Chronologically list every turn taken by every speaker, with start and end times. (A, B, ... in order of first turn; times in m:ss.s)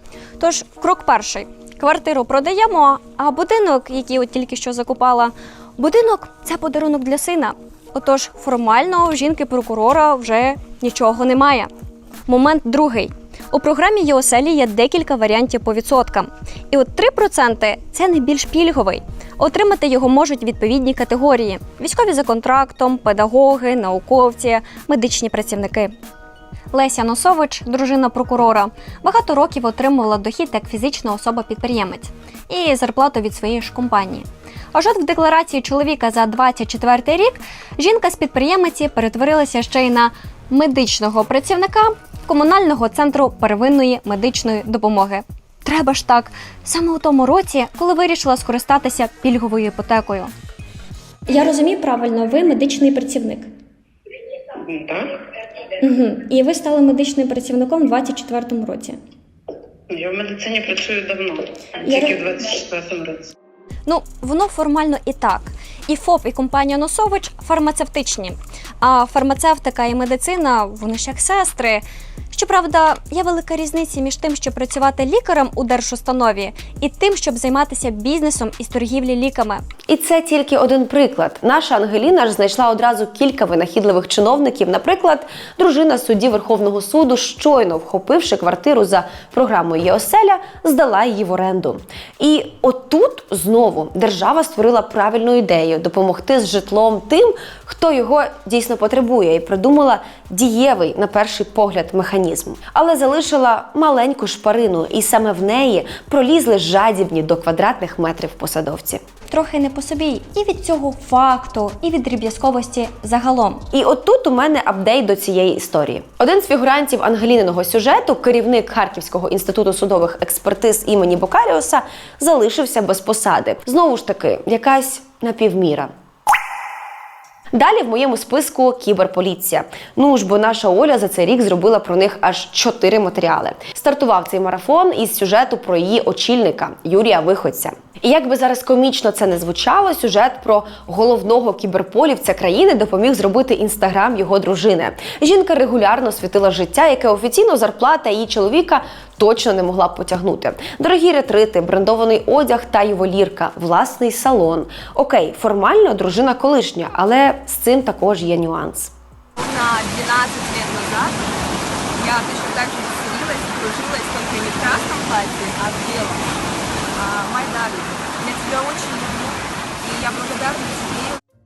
0:00.4-0:11.7 A
0:12.3-0:25.9 A
0:26.7-0:50.3 A
0:51.3-0:53.5 A
0:54.6-0:55.1 B
0:55.8-0:59.0 A
0:59.9-1:03.3 B
1:01.8-1:02.2 A
1:03.9-1:19.6 A
1:19.9-1:49.0 C
1:49.3-1:53.6 A
1:53.7-2:05.9 C
2:07.5-2:38.9 C
2:39.4-2:41.2 D
2:42.0-2:46.2 D
2:47.0-2:51.2 D